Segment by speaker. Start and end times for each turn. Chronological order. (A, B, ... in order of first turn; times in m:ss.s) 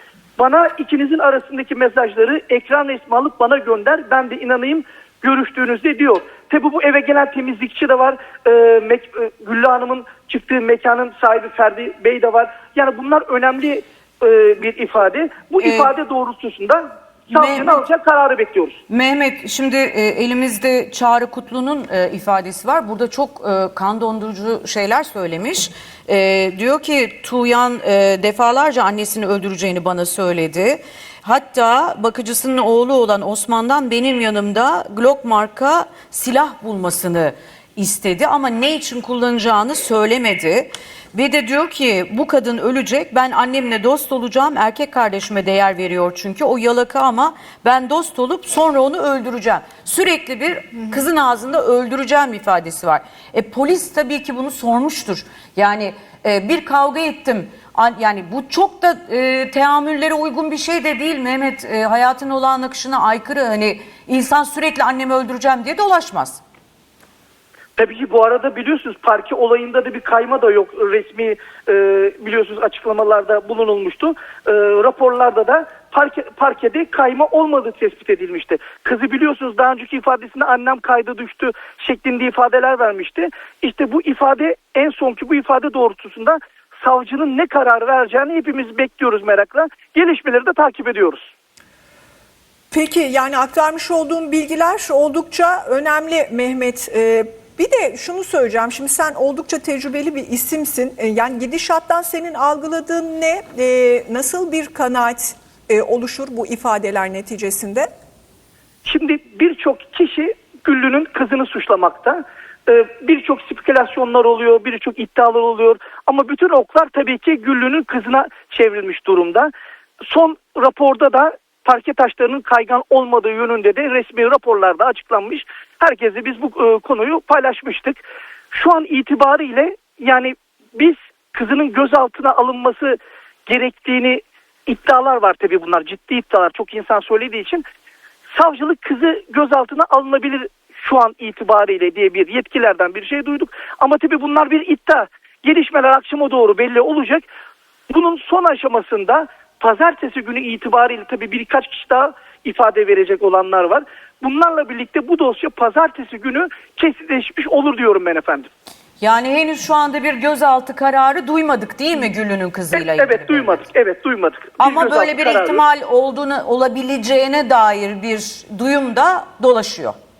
0:00.4-0:18.8 A
0:15.6-0:15.9 B
0:17.3-0:17.8 B
0:18.9-1:06.4 B
1:07.8-1:31.3 A
1:32.7-1:47.9 C
1:48.8-1:59.5 A
2:00.0-2:17.6 A
2:18.3-2:27.2 A
2:27.9-2:38.5 A
2:39.0-2:43.6 B
2:42.7-2:45.6 A
2:44.6-2:50.0 B